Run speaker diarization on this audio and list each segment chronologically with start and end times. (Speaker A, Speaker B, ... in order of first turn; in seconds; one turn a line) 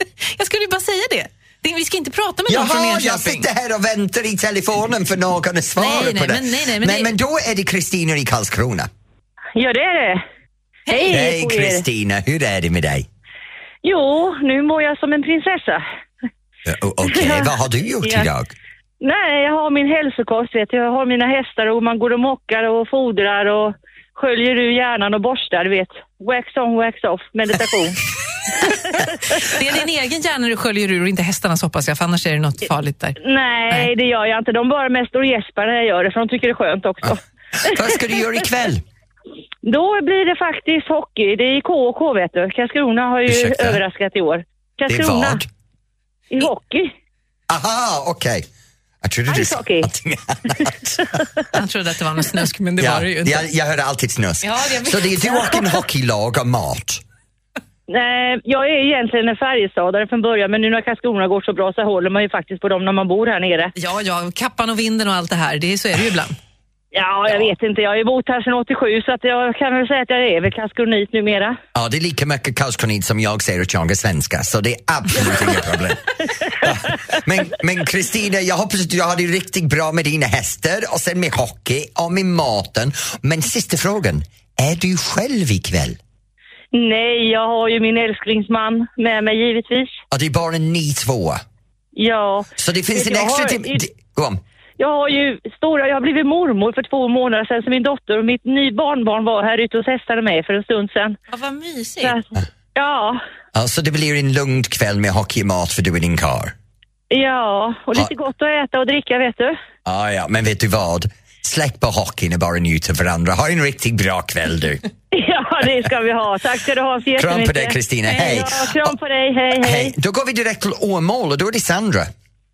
Speaker A: 0.2-3.5
Speaker B: 2.5-8.9
Speaker A: 5.8-7.1
Speaker C: 9.6-10.2
Speaker A: 10.9-11.1
Speaker C: 10.9-11.8
Speaker B: 11.1-13.1
Speaker C: 13.8-15.8
Speaker B: 16.6-18.5
Speaker C: 17.1-17.5
Speaker C: 18.0-18.3
Speaker C: 19.0-28.0
Speaker C: 28.7-29.0
Speaker A: 29.4-33.2
Speaker C: 33.2-38.2
Speaker B: 37.6-38.8
Speaker C: 39.6-45.4
Speaker B: 43.3-43.8
Speaker B: 44.9-45.5
Speaker C: 46.3-46.9
Speaker B: 47.5-48.5
Speaker B: 49.0-51.2
Speaker C: 49.3-49.9
Speaker A: 51.5-53.5
Speaker B: 52.8-57.0
Speaker A: 54.4-55.7
Speaker C: 57.9-63.7
Speaker A: 63.8-66.4
Speaker C: 66.9-71.6
Speaker B: 71.8-86.0
Speaker C: 86.7-90.0
Speaker B: 90.1-91.4
Speaker C: 92.0-93.8
Speaker B: 92.6-94.4
Speaker C: 94.8-101.2
Speaker A: 101.3-102.2
Speaker C: 102.0-103.2
Speaker B: 103.5-106.5
Speaker C: 107.1-109.6
Speaker B: 109.8-114.8
Speaker C: 115.1-119.9
Speaker B: 117.2-119.0
Speaker B: 119.5-122.1